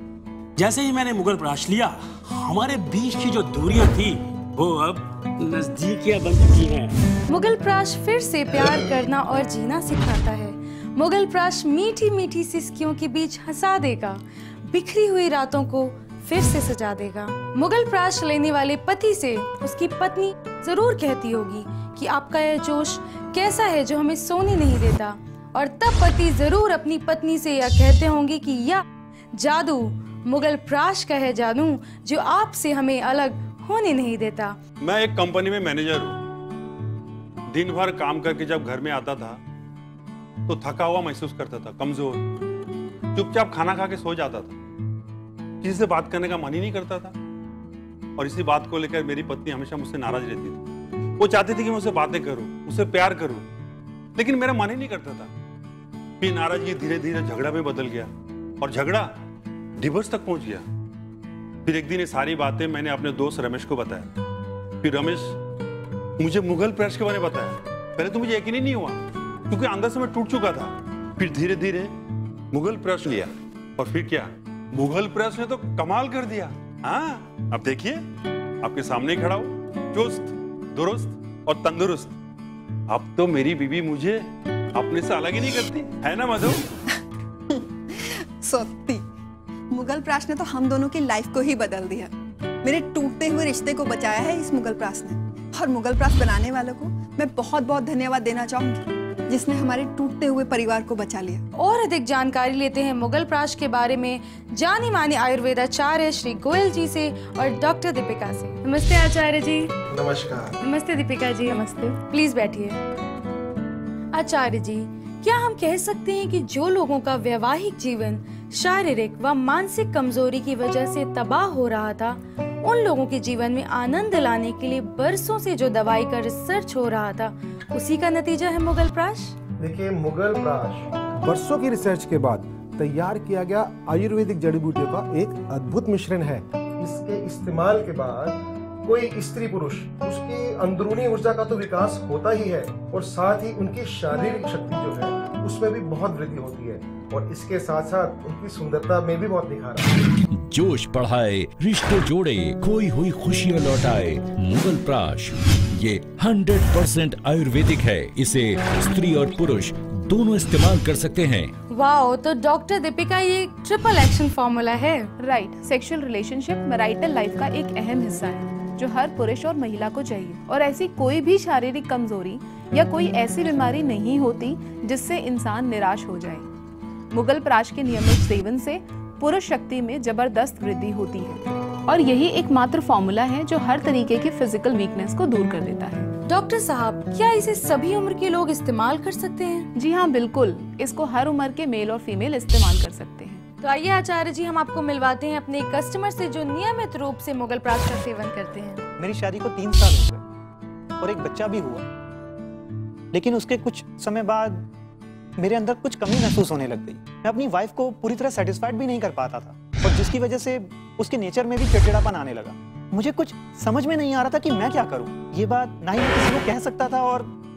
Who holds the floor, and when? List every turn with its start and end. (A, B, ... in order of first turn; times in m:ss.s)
0:00.6-0:06.9 A
0:07.3-0:28.8 B
0:29.4-0:34.6 B
0:34.8-0:36.1 C
0:37.6-0:39.4 C
0:40.5-0:42.2 C
0:43.2-0:44.5 C
0:45.6-0:47.1 C
0:48.2-0:50.6 C
0:51.2-0:53.4 C
0:54.2-0:55.3 C
0:56.2-0:58.1 C
0:58.6-0:59.0 C
0:59.8-1:00.6 C
1:01.7-1:04.0 C
1:04.8-1:05.2 C
1:06.2-1:09.0 C
1:09.5-1:10.7 C
1:11.2-1:11.9 C
1:12.6-1:13.3 C
1:13.8-1:14.3 C
1:14.8-1:18.0 C
1:18.6-1:22.1 C
1:22.9-1:24.2 C
1:24.8-1:26.5 C
1:28.4-1:29.0 D
1:29.7-1:32.1 D
1:32.6-1:41.4 D
1:41.6-1:49.7 B
1:49.9-1:50.6 E
1:50.6-1:52.8 B
1:51.5-1:51.9 F
1:54.2-2:09.4 B
2:09.6-2:29.9 E
2:30.3-2:41.5 G
2:41.7-2:45.1 B
2:45.2-2:56.5 F
2:57.1-3:06.1 F
3:06.3-3:09.7 B
3:09.8-3:13.4 F
3:13.6-3:18.8 B
3:19.0-3:20.2 H
3:21.0-3:21.8 H
3:23.2-3:24.6 H
3:25.4-3:37.3 H